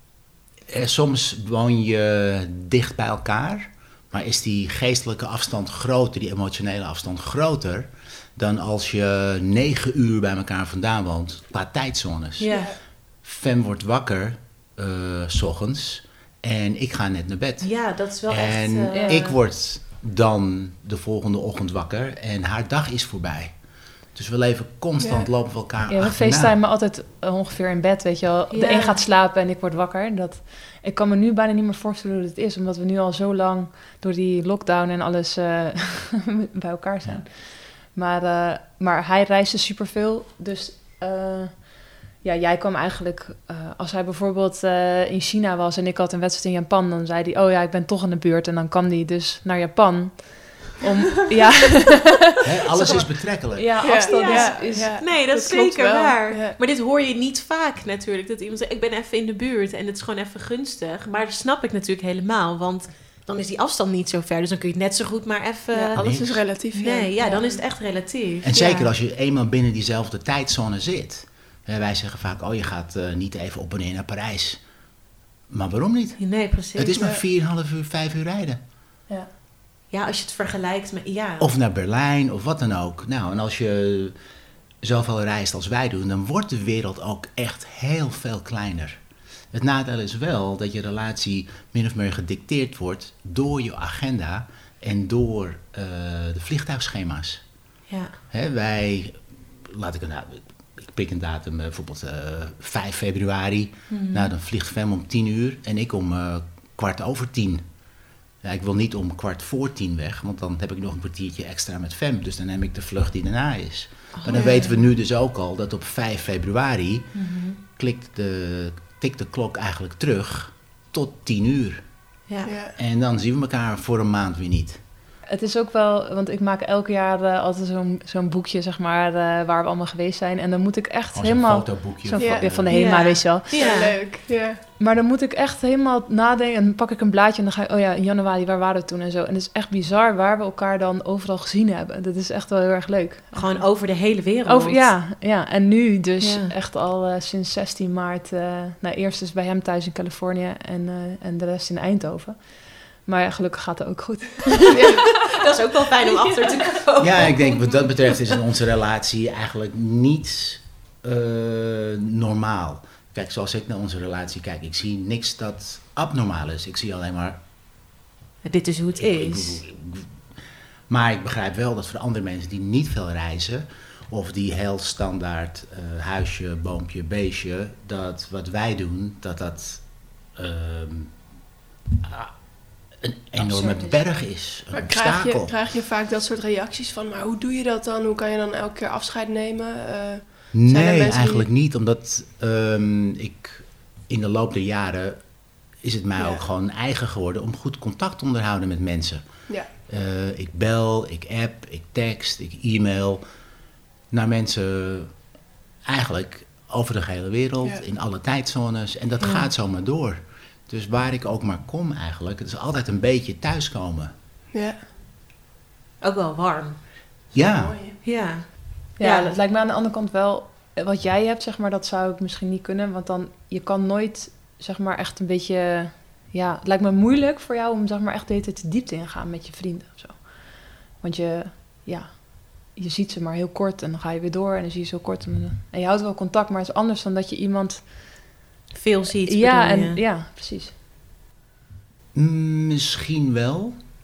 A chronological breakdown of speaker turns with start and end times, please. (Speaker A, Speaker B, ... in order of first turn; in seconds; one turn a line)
Speaker A: 0.7-12.5
Speaker B: 12.4-12.7
Speaker C: 12.5-12.7
Speaker A: 13.2-17.7
Speaker B: 17.6-19.3
Speaker A: 18.3-23.5
Speaker D: 18.9-19.2
Speaker A: 24.1-26.5
Speaker C: 25.0-25.3
Speaker D: 25.9-55.0
Speaker B: 28.5-29.0
Speaker A: 52.4-53.8
Speaker C: 53.8-56.6
Speaker B: 54.0-66.0
Speaker C: 65.7-67.6
Speaker A: 65.9-66.4
Speaker B: 66.7-68.9
Speaker A: 68.4-74.6
Speaker A: 75.5-78.6
Speaker B: 76.2-77.1
Speaker C: 76.9-77.2
Speaker B: 79.9-81.5
Speaker A: 81.4-84.1
Speaker A: 84.8-89.0
Speaker A: 89.5-97.4
Speaker A: 98.3-107.6
Speaker B: 103.9-104.3
Speaker A: 108.4-117.1
Speaker B: 114.1-114.7
Speaker C: 114.3-114.7
Speaker B: 117.1-117.6
Speaker A: 117.7-121.8
Speaker C: 122.4-122.7
Speaker A: 122.8-124.8
Speaker D: 125.3-133.5
Speaker A: 131.1-132.7
Speaker C: 132.2-132.5
Speaker B: 132.7-134.0
Speaker C: 133.5-134.6
Speaker D: 134.8-143.6
Speaker B: 143.3-144.8
Speaker D: 144.4-152.4
Speaker B: 146.2-146.5
Speaker D: 153.1-155.2
Speaker B: 154.7-158.2
Speaker C: 154.7-155.0
Speaker A: 157.0-167.4
Speaker B: 168.4-169.6
Speaker A: 168.9-170.1
Speaker A: 170.9-181.2
Speaker A: 182.0-182.3
Speaker A: 183.0-185.5
Speaker D: 183.4-184.0
Speaker C: 184.7-191.5
Speaker A: 190.5-195.2
Speaker A: 195.8-199.2
Speaker C: 196.2-196.4
Speaker A: 199.8-203.2
Speaker A: 204.1-205.1
Speaker A: 205.8-214.1
Speaker B: 209.2-209.5
Speaker B: 216.0-216.8
Speaker A: 217.3-217.8
Speaker C: 217.4-218.0
Speaker B: 218.0-219.3
Speaker D: 219.0-230.2
Speaker D: 231.0-237.9
Speaker B: 238.7-240.0
Speaker D: 239.2-240.7
Speaker A: 242.1-243.8